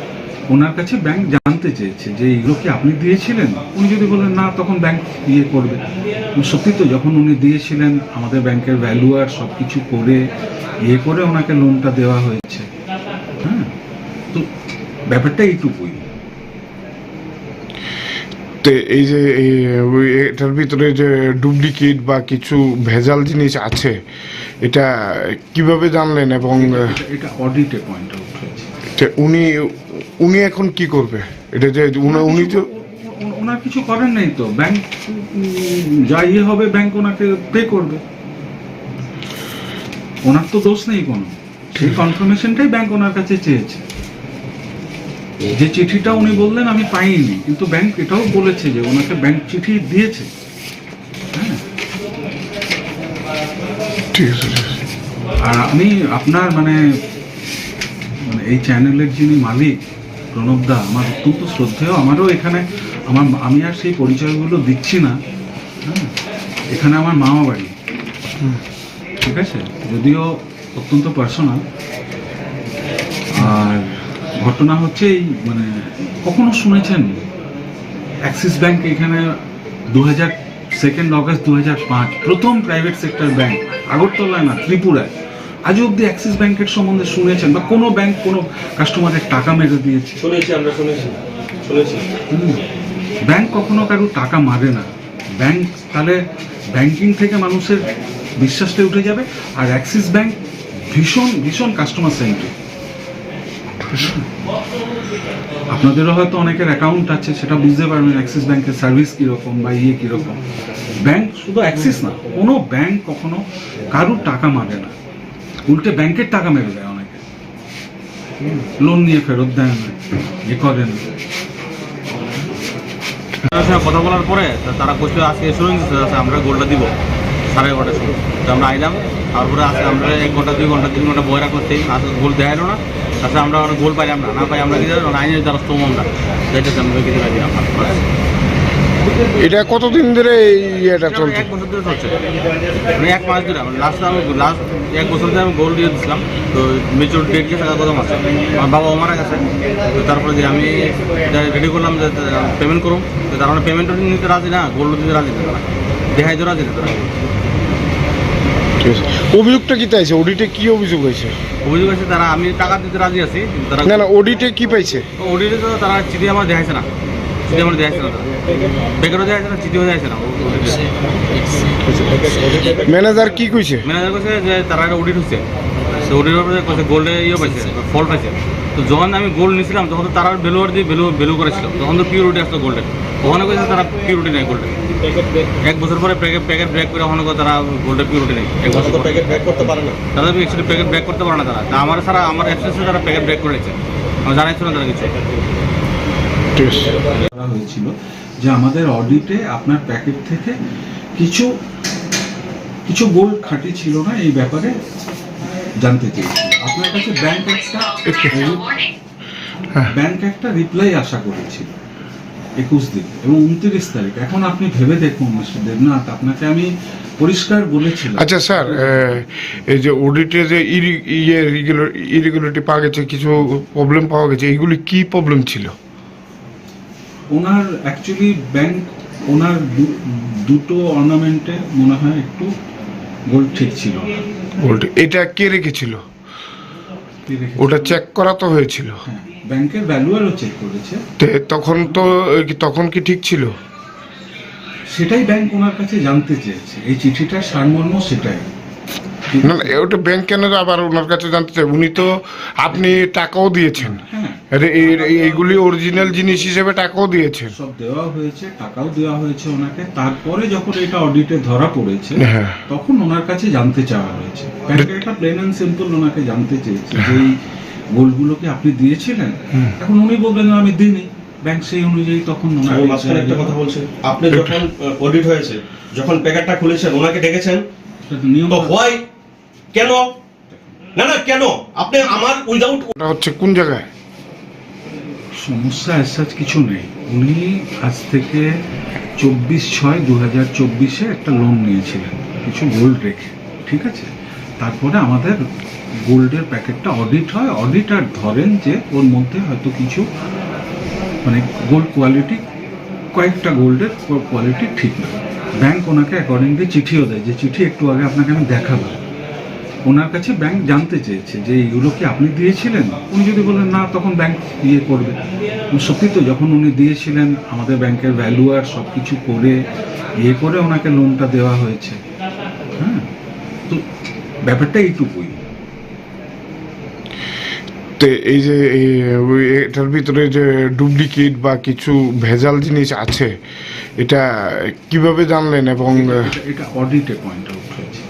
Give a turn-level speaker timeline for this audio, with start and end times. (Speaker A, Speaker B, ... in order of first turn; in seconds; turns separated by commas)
Speaker A: 0.5-10.2, Speaker A: 10.9-12.7, Speaker A: 13.4-13.7, Speaker A: 15.1-16.0, Speaker B: 18.6-23.9, Speaker B: 24.6-26.8, Speaker A: 26.5-28.7, Speaker B: 29.0-32.6, Speaker A: 32.0-38.0, Speaker A: 40.2-43.8, Speaker B: 41.8-42.0, Speaker A: 45.5-50.3, Speaker A: 51.3-51.6, Speaker B: 54.1-54.8, Speaker A: 55.4-56.8, Speaker A: 58.2-59.7, Speaker A: 60.3-65.1, Speaker A: 65.8-66.1, Speaker A: 66.7-67.7, Speaker A: 69.2-71.6, Speaker A: 73.3-77.3, Speaker A: 78.2-79.3, Speaker A: 79.9-85.1, Speaker A: 85.7-90.2, Speaker C: 90.2-92.0, Speaker A: 92.3-92.6, Speaker A: 93.3-94.9, Speaker A: 95.4-96.2, Speaker A: 96.7-97.8, Speaker A: 98.4-100.4, Speaker A: 100.9-102.5, Speaker A: 103.8-104.3, Speaker A: 105.7-110.5, Speaker A: 111.0-114.9, Speaker A: 115.7-117.2, Speaker A: 118.5-120.0, Speaker A: 120.5-121.0, Speaker D: 123.5-126.9, Speaker D: 127.5-138.1, Speaker B: 139.3-141.4, Speaker D: 141.1-142.2, Speaker D: 142.9-157.1, Speaker B: 158.8-161.3, Speaker D: 161.6-164.0, Speaker B: 163.8-165.0, Speaker D: 165.2-166.9, Speaker D: 167.5-168.3, Speaker D: 168.9-170.9, Speaker B: 171.8-172.2, Speaker C: 172.2-172.8, Speaker B: 172.8-173.8, Speaker D: 173.8-175.4, Speaker D: 176.0-184.7, Speaker D: 185.6-189.4, Speaker C: 188.7-189.9, Speaker D: 190.1-195.1, Speaker B: 196.5-197.0, Speaker A: 197.1-200.5, Speaker A: 201.2-201.5, Speaker A: 202.8-204.7, Speaker A: 205.8-208.8, Speaker B: 208.0-208.5, Speaker A: 209.9-211.7, Speaker A: 212.6-219.6, Speaker B: 218.1-225.7, Speaker A: 227.3-232.5, Speaker A: 233.3-234.2, Speaker B: 234.6-236.0, Speaker A: 237.3-238.0, Speaker B: 237.6-239.0, Speaker A: 239.0-241.0, Speaker B: 241.2-243.5, Speaker A: 241.8-242.1, Speaker A: 244.9-248.5, Speaker A: 249.3-249.8, Speaker B: 249.4-254.0, Speaker A: 252.7-253.0, Speaker A: 253.8-255.6, Speaker B: 254.5-257.5, Speaker A: 257.5-267.3, Speaker B: 262.2-262.6, Speaker B: 266.9-267.2, Speaker A: 267.9-273.6, Speaker C: 272.6-277.6, Speaker B: 274.3-274.6, Speaker A: 278.1-278.8, Speaker C: 278.5-279.0, Speaker C: 279.7-280.1, Speaker C: 281.0-282.9, Speaker B: 283.0-283.9, Speaker A: 285.4-288.4, Speaker A: 289.2-295.4, Speaker A: 296.1-300.0, Speaker A: 301.2-302.4, Speaker A: 303.1-309.0, Speaker A: 309.9-315.2, Speaker A: 315.7-319.6, Speaker A: 320.2-322.0, Speaker A: 322.8-323.1, Speaker A: 324.4-325.4, Speaker B: 328.0-333.3, Speaker B: 334.0-336.3, Speaker A: 335.9-338.0